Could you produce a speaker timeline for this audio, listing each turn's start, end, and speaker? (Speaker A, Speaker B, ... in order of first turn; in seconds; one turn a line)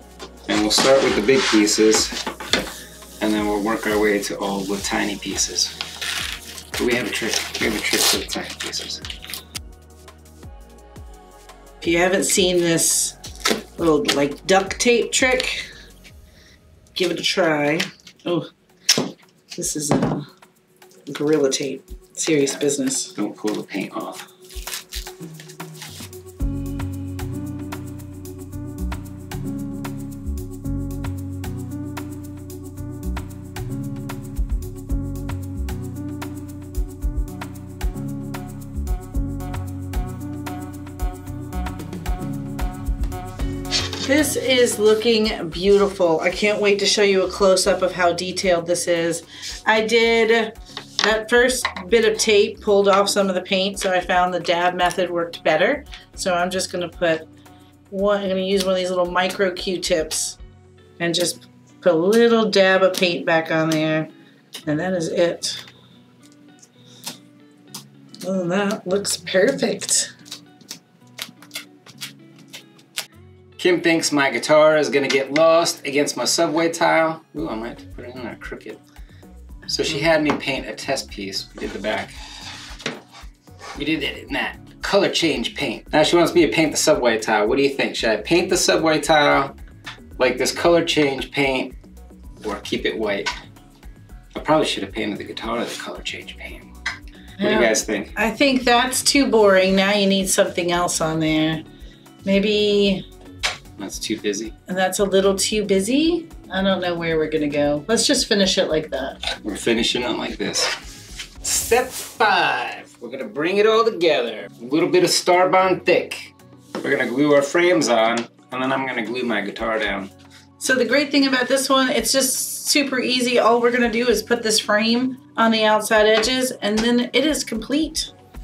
Speaker A: 0.5-2.2
Speaker A: 3.2-5.7
Speaker A: 6.8-9.0
Speaker B: 11.8-13.2
Speaker B: 13.8-15.7
Speaker B: 16.9-18.5
Speaker B: 19.5-20.3
Speaker B: 21.1-23.1
Speaker A: 22.4-24.3
Speaker B: 44.0-57.3
Speaker B: 57.9-60.4
Speaker B: 61.0-64.1
Speaker B: 64.7-65.7
Speaker B: 68.2-70.1
Speaker A: 73.6-78.8
Speaker A: 79.7-82.2
Speaker A: 83.7-89.5
Speaker A: 90.2-91.7
Speaker A: 92.4-93.3
Speaker A: 94.3-96.7
Speaker B: 97.4-101.6
Speaker A: 97.4-98.1
Speaker B: 102.2-103.1
Speaker A: 103.8-104.5
Speaker B: 104.7-109.3
Speaker A: 109.4-110.7
Speaker A: 111.4-120.1
Speaker B: 120.6-128.1